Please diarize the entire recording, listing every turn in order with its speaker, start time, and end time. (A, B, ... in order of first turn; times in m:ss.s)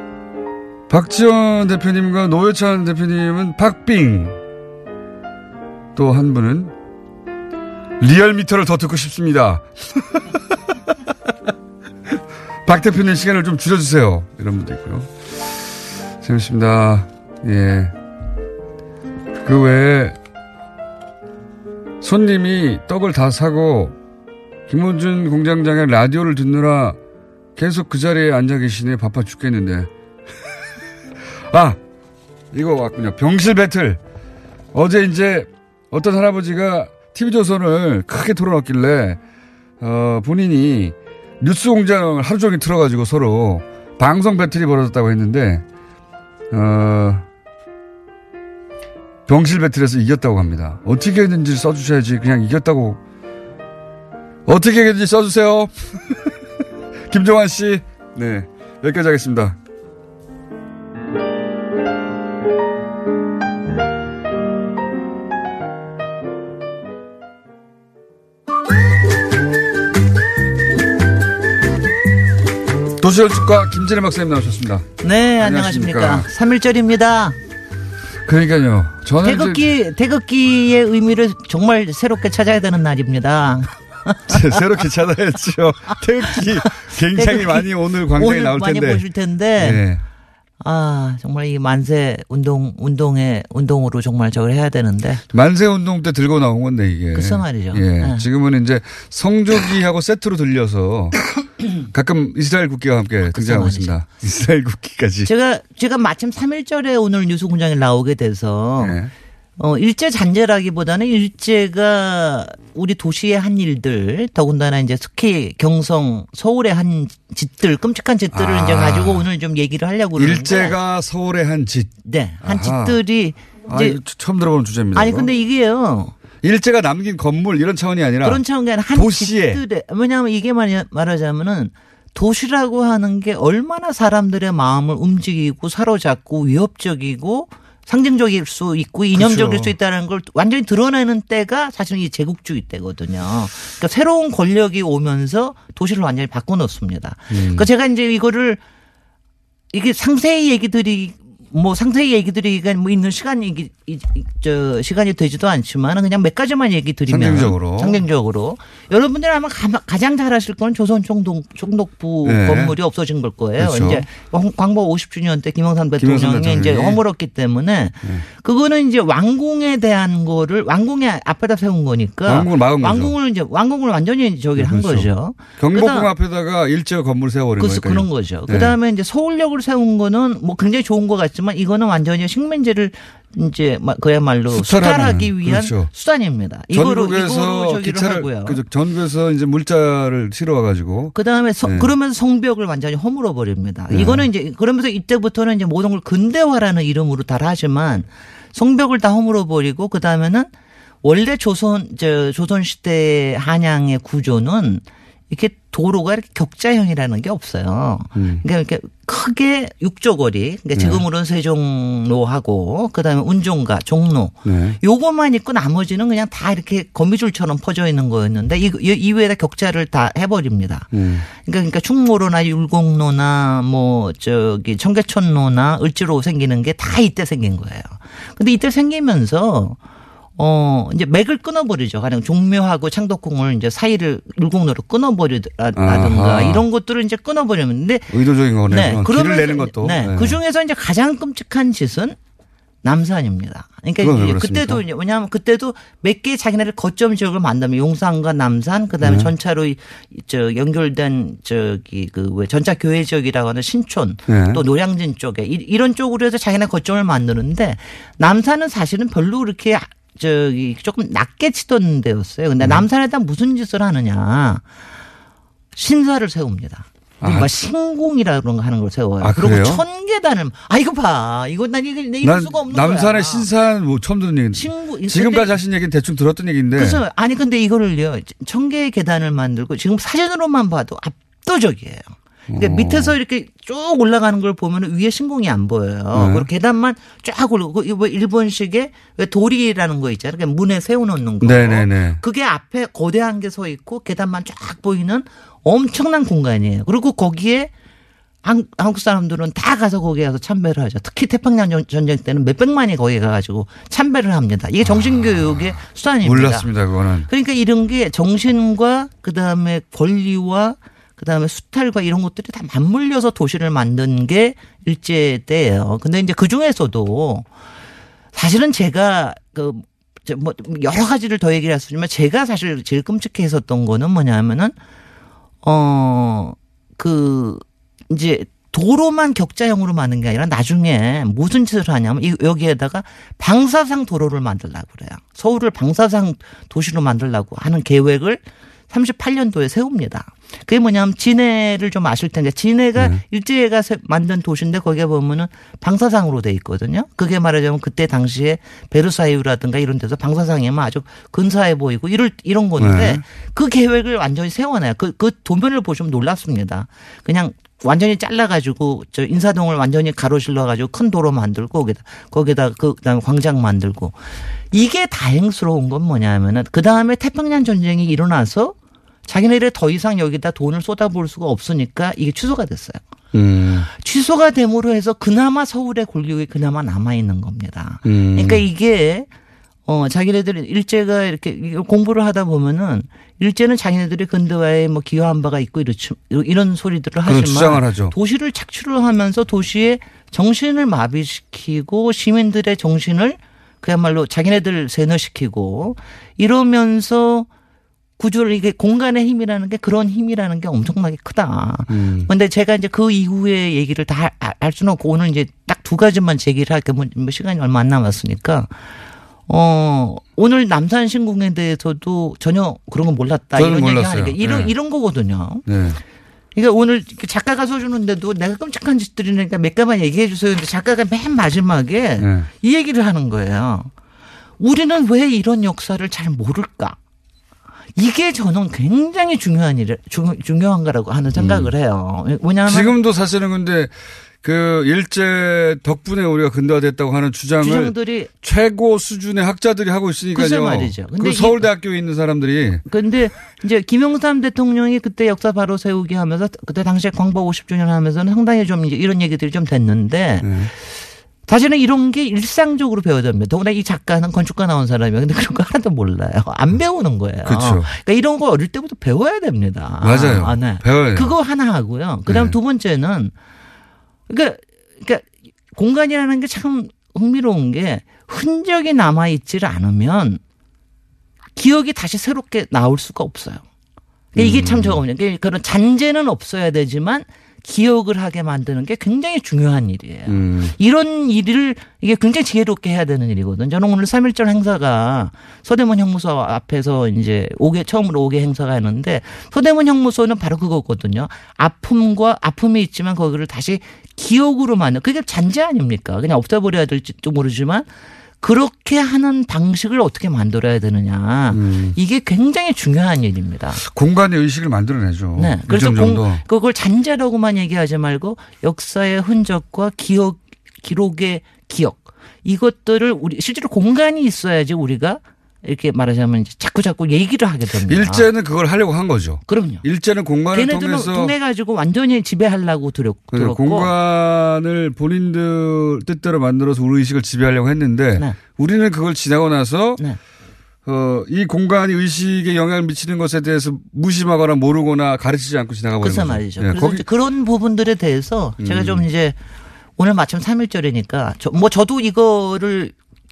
0:00.9-0:04.4 A
0:06.0-0:06.7 A
0:08.0-0:09.7 A
0:12.6-0:15.5 A
0:16.2-0:17.9 A
0:19.4-0:20.2 A
0:22.0-0:24.0 A
0:24.7-0:27.0 A
0:27.6-0:29.9 A
0:31.5-0:31.8 A
0:32.5-0:34.0 A
0:34.7-0:39.2 A
0:39.8-0:45.6 A
0:46.5-0:47.2 A
0:49.3-0:53.0 A
0:54.5-0:56.2 A
0:57.1-0:59.6 A
1:13.0-1:14.9 A
1:15.0-1:17.4 B
1:15.4-1:16.3 A
1:18.3-1:19.7 A
1:19.2-1:24.4 B
1:24.3-1:29.1 A
1:27.2-1:29.8 B
1:29.6-1:30.0 A
1:30.6-1:35.2 B
1:35.3-1:41.2 A
1:37.1-1:38.2 B
1:41.9-1:45.3 A
1:43.3-1:44.0 B
1:45.3-1:49.0 B
1:48.8-1:49.1 A
1:49.6-2:00.8 B
1:58.3-1:59.3 A
2:00.2-2:03.0 A
2:02.0-2:04.0 B
2:03.7-2:05.3 A
2:05.0-2:06.1 B
2:06.4-2:09.6 A
2:08.2-2:28.6 B
2:19.2-2:19.8 A
2:27.3-2:27.7 A
2:29.7-2:56.1 B
2:37.1-2:38.0 A
2:42.2-2:42.8 A
2:43.6-2:44.1 A
2:46.0-2:47.0 A
2:52.2-2:53.2 A
2:54.6-2:58.8 A
2:57.6-3:08.6 B
3:04.5-3:05.9 A
3:06.7-3:11.9 A
3:11.1-3:20.5 B
3:13.9-3:14.3 A
3:21.0-3:49.8 B
3:28.2-3:28.4 A
3:30.8-3:31.0 A
3:34.4-3:34.8 A
3:40.9-3:41.3 A
3:50.4-3:58.1 B
3:55.8-3:56.7 A
3:58.1-4:00.4 A
3:58.7-4:02.2 B
4:02.8-4:24.7 B
4:04.0-4:04.8 A
4:09.0-4:09.3 A
4:14.3-4:14.6 A
4:22.6-4:22.9 A
4:25.8-4:33.5 B
4:27.2-4:27.5 A
4:29.2-4:29.8 A
4:32.2-4:37.0 A
4:34.6-4:35.5 B
4:36.7-4:57.7 B
4:42.5-4:43.2 A
4:46.1-4:46.5 A
4:51.4-4:52.2 A
4:58.4-5:06.7 B
5:04.9-5:07.3 A
5:07.3-5:17.5 B
5:18.3-5:24.8 B
5:25.6-6:04.2 B
5:43.0-5:43.2 A
5:52.8-5:53.2 A
6:04.7-6:08.8 B
6:09.3-6:13.0 B
6:13.3-6:13.9 A
6:13.9-6:19.3 B
6:18.0-6:18.7 A
6:19.9-6:37.5 B
6:27.2-6:28.2 A
6:38.2-6:48.7 B
6:41.9-6:42.3 A
6:49.5-6:55.6 B
6:53.6-6:54.8 A
6:55.7-6:56.0 A
6:56.6-7:03.9 B
7:02.2-7:02.5 A
7:04.6-7:07.0 B
7:08.0-7:12.9 B
7:11.4-7:11.7 A
7:12.6-7:22.8 A
7:17.6-7:18.3 B
7:20.3-7:21.7 B
7:22.9-7:30.7 B
7:30.4-7:30.7 A
7:31.5-7:43.3 B
7:37.4-7:37.9 A
7:40.0-7:41.3 A
7:42.3-7:42.6 A
7:44.3-7:50.4 B
7:51.6-7:53.6 B
7:54.3-8:17.9 B
7:54.4-7:55.0 A
8:00.3-8:00.8 A
8:18.4-8:23.8 B
8:21.5-8:22.0 A
8:23.8-8:26.4 A
8:25.4-8:38.3 B
8:37.8-8:41.4 A
8:39.5-8:39.8 B
8:40.5-8:43.9 B
8:43.3-8:50.0 A
8:50.9-8:57.0 A
8:56.0-8:59.4 B
8:58.6-8:59.1 A
9:00.0-9:02.9 B